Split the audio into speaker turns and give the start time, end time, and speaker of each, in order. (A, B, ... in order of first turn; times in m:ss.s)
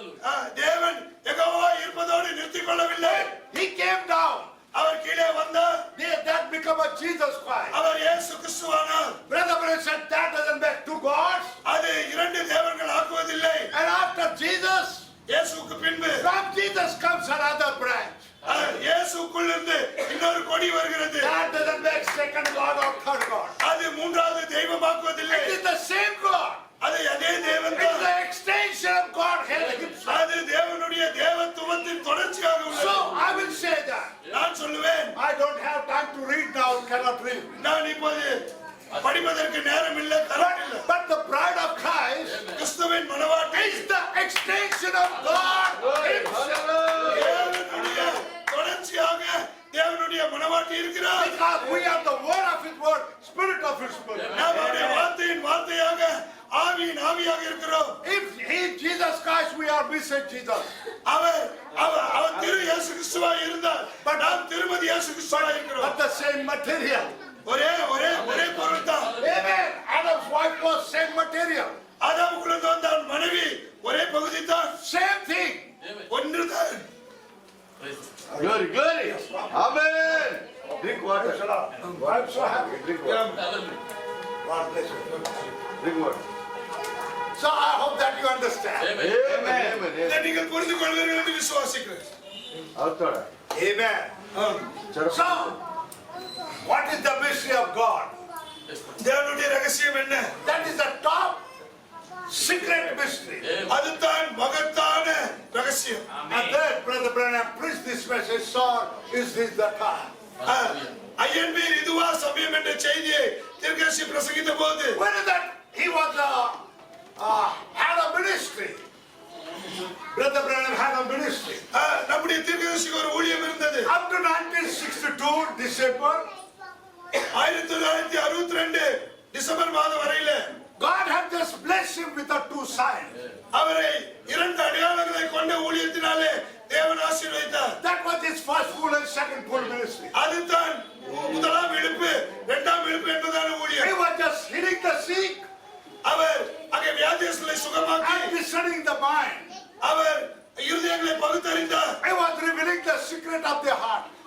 0:00.2-0:03.3 A
0:03.0-0:04.5 B
0:04.7-0:05.8 A
0:05.9-0:07.8 B
0:07.7-0:09.2 A
0:09.3-0:11.6 B
0:11.6-0:13.7 A
0:13.7-0:15.1 B
0:15.3-0:16.3 A
0:16.2-0:18.3 B
0:18.4-0:21.3 A
0:21.2-0:23.6 B
0:23.6-0:25.6 A
0:25.3-0:26.6 B
0:26.8-0:28.1 A
0:27.7-0:30.4 B
0:30.0-0:33.3 A
0:32.7-0:34.2 B
0:34.3-0:35.2 A
0:35.1-0:37.6 B
0:37.6-0:40.9 A
0:40.4-0:42.6 B
0:42.5-0:43.9 A
0:43.5-0:47.2 B
0:45.8-0:47.5 C
0:47.0-0:51.4 A
0:51.2-0:55.1 B
0:54.3-0:58.0 A
0:58.0-1:00.7 B
1:01.0-1:06.0 A
1:04.0-1:04.4 B
1:05.3-1:07.2 B
1:07.4-1:09.2 A
1:09.2-1:11.8 B
1:12.0-1:14.8 A
1:14.8-1:15.8 B
1:16.1-1:16.9 A
1:18.3-1:21.4 C
1:18.4-1:19.8 B
1:20.8-1:23.0 B
1:22.0-1:23.3 C
1:23.0-1:23.5 A
1:24.4-1:25.3 B
1:25.8-1:26.2 C
1:27.4-1:29.0 B
1:29.0-1:30.3 C
1:29.4-1:32.1 A
1:32.8-1:33.3 C
1:33.5-1:34.2 B
1:34.3-1:34.7 A
1:34.9-1:35.4 C
1:35.0-1:35.6 B
1:36.6-1:38.1 B
1:38.9-1:40.4 A
1:40.4-1:41.4 B
1:42.3-1:43.6 B
1:43.6-1:46.0 A
1:46.2-1:50.1 B
1:50.4-1:55.0 A
1:55.0-1:56.6 B
1:57.2-1:58.8 B
2:00.1-2:01.6 B
2:01.7-2:03.9 A
2:03.8-2:06.3 B
2:07.3-2:10.6 A
2:10.8-2:13.2 B
2:13.5-2:17.8 A
2:17.8-2:20.1 B
2:20.1-2:23.9 A
2:23.8-2:25.5 B
2:26.0-2:28.3 A
2:28.0-2:29.5 B
2:29.8-2:32.0 A
2:32.0-2:34.1 B